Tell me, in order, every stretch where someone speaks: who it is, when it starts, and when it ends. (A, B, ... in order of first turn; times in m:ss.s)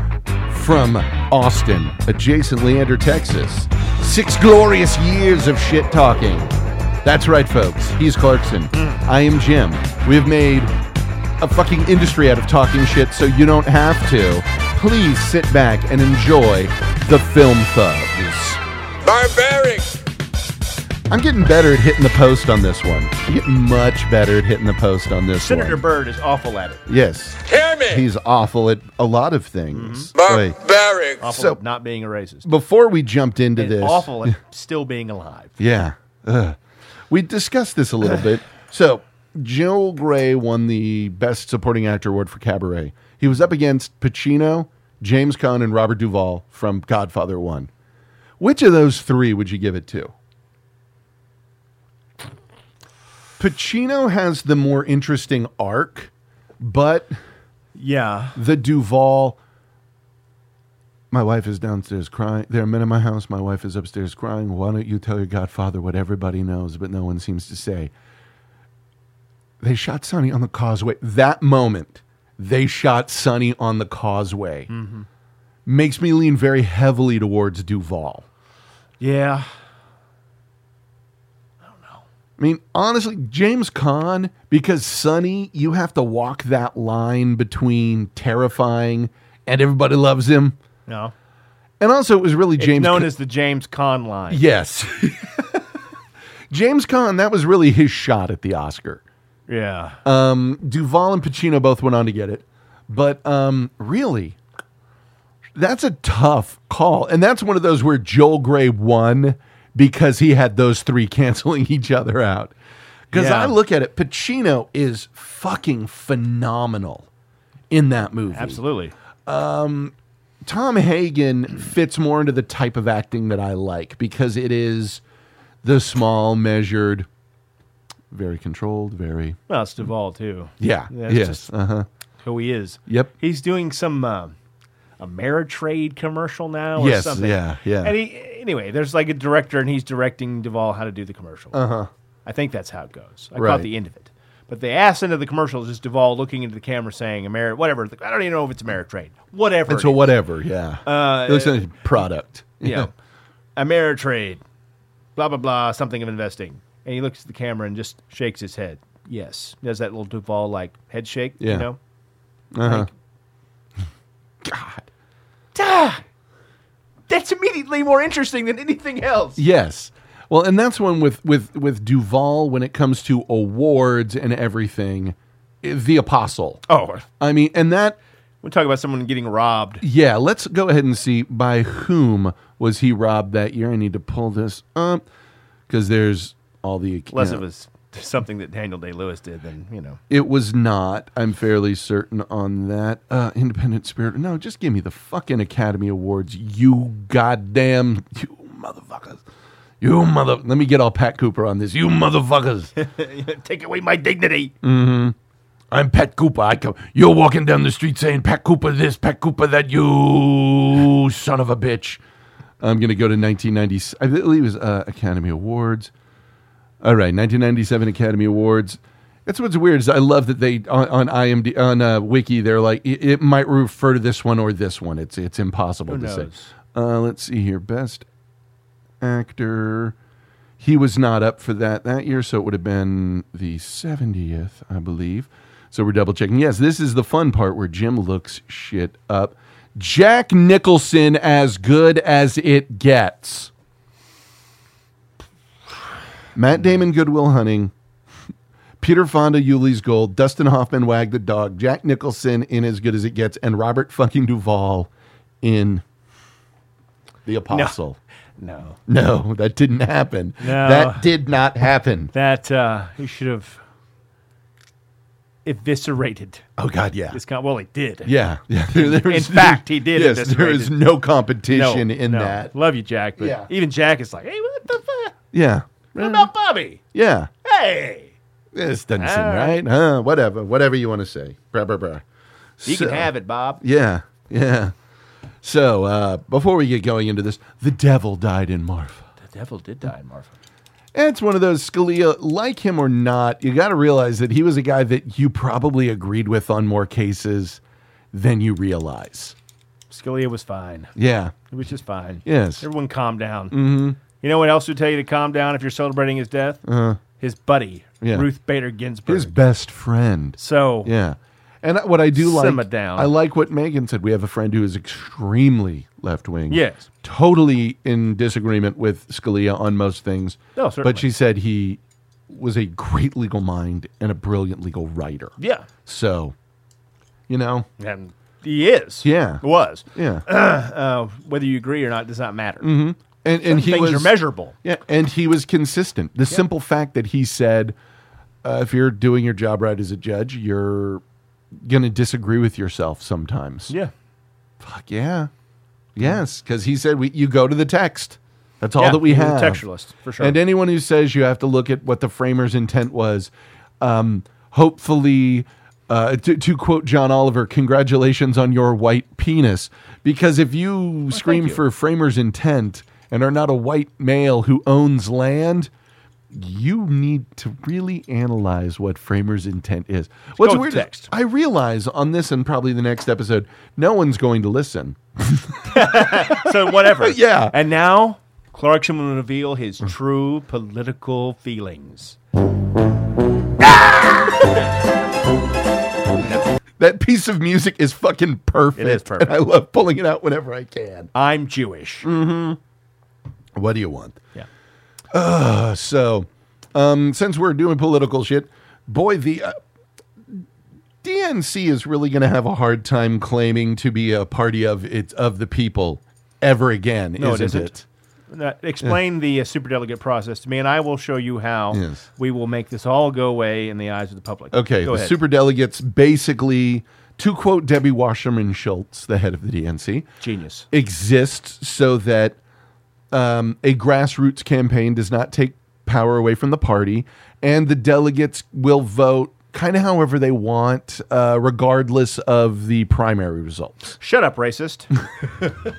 0:00.5-0:06.5 A
0:07.0-0:10.7 A
0:08.7-0:09.0 B
0:11.4-0:18.6 A
0:19.0-0:20.0 C
0:21.1-0:25.8 A
0:25.4-0:26.8 B
0:26.9-0:30.6 A
0:27.4-0:28.1 C
0:29.7-0:30.1 B
0:30.2-0:31.3 C
0:31.2-0:32.5 B
0:31.2-0:31.6 A
0:32.4-0:34.3 A
0:33.6-0:35.6 B
0:35.6-0:36.6 A
0:37.1-0:47.7 A
0:48.4-0:50.1 A
0:53.4-0:57.2 A
0:57.8-0:58.4 B
0:58.4-0:59.4 A
1:01.1-1:07.9 A
1:09.6-1:14.7 A
1:14.7-1:15.1 B
1:15.7-1:18.3 A
1:19.0-1:19.5 B
1:21.6-1:22.0 B
1:22.4-1:30.6 A
1:30.9-1:31.1 B
1:31.8-1:33.1 A
1:32.6-1:34.4 B
1:34.3-1:35.6 A
1:36.5-1:39.0 A
1:39.5-1:40.0 B
1:40.0-1:44.4 A
1:45.6-1:52.5 A
1:53.1-1:57.1 A
1:53.1-1:53.6 B
1:57.7-1:58.6 A
1:58.3-1:58.9 B
1:59.3-2:05.0 A
2:05.6-2:07.1 A
2:08.1-2:09.4 A
2:09.5-2:11.5 B
2:10.6-2:11.9 A
2:12.2-2:14.4 B
2:12.9-2:13.1 A
2:15.0-2:21.6 B
2:16.8-2:18.0 A
2:21.5-2:21.9 A
2:22.2-2:30.1 B
2:23.4-2:23.7 A
2:29.7-2:32.9 A
2:30.8-2:31.7 B
2:32.6-2:32.9 B
2:33.6-2:34.4 B
2:35.2-2:41.8 B
2:41.4-2:41.7 A
2:42.5-2:42.9 A
2:42.6-2:42.9 B
2:44.4-2:44.9 A
2:45.6-2:46.0 B
2:47.1-2:49.4 B
2:49.4-2:56.6 A
2:56.7-2:57.1 B
2:57.2-2:58.0 A
2:58.4-2:59.8 B
2:59.8-3:05.0 A
3:05.7-3:07.4 A
3:07.1-3:10.0 B
3:10.1-3:19.2 A
3:19.8-3:22.7 A
3:22.8-3:24.5 B
3:24.6-3:25.2 A
3:25.7-3:32.0 A
3:32.6-3:35.9 A
3:36.8-3:48.1 A
3:45.9-3:46.5 B
3:49.0-3:50.0 A
3:50.6-4:03.5 A
4:06.4-4:07.7 A
4:08.8-4:14.9 A
4:15.4-4:15.8 A
4:17.3-4:18.0 A
4:17.5-4:17.8 B
4:18.4-4:18.8 B
4:18.9-4:22.1 A
4:20.4-4:21.1 B
4:22.1-4:23.6 B
4:25.4-4:26.4 B
4:26.6-4:27.2 A
4:27.1-4:28.1 B
4:28.0-4:32.5 A
4:28.7-4:30.8 B
4:31.5-4:35.2 B
4:33.2-4:33.5 A
4:35.3-4:36.3 A
4:36.0-4:36.8 B
4:36.9-4:37.3 A
4:37.4-4:38.1 B
4:38.5-4:42.0 A
4:39.0-4:39.6 B
4:42.6-4:43.1 A
4:42.6-4:43.6 B
4:43.6-4:44.7 A
4:45.4-4:49.1 A
4:49.2-4:50.4 B
4:50.9-4:57.6 A
4:58.1-4:59.4 A
4:59.9-5:00.9 B
5:01.0-5:01.4 A
5:01.5-5:06.6 B
5:02.2-5:02.6 A
5:03.5-5:04.0 A
5:06.6-5:07.0 A
5:07.2-5:09.3 B
5:08.0-5:08.3 A
5:09.1-5:25.3 A
5:10.4-5:10.9 B
5:12.2-5:13.1 B
5:16.5-5:16.9 B
5:20.6-5:21.1 B
5:25.4-5:25.7 B
5:25.8-5:26.4 A
5:27.3-5:27.7 A
5:27.8-5:32.7 B
5:29.0-5:29.4 A
5:29.9-5:30.2 A
5:32.6-5:37.8 A
5:33.4-5:34.6 B
5:38.4-5:41.0 A
5:41.6-5:43.7 A
5:44.6-5:45.3 A
5:46.0-5:49.6 A
5:48.8-5:50.4 B
5:50.2-6:05.7 A
6:01.1-6:01.6 B
6:06.3-6:17.6 A
6:10.4-6:11.1 B
6:15.7-6:22.2 B
6:23.7-6:24.6 B
6:26.2-6:26.5 B
6:26.8-6:31.1 A
6:28.8-6:29.4 B
6:31.1-6:32.1 B
6:32.0-6:32.6 A
6:33.6-6:34.2 A
6:35.1-6:39.6 A
6:41.0-6:47.8 A
6:47.2-6:47.8 B
6:48.3-6:55.2 B
6:51.7-6:52.0 A
6:54.5-7:00.1 A
7:00.2-7:00.7 B
7:00.7-7:02.4 A
7:03.1-7:14.0 A
7:14.0-7:14.9 B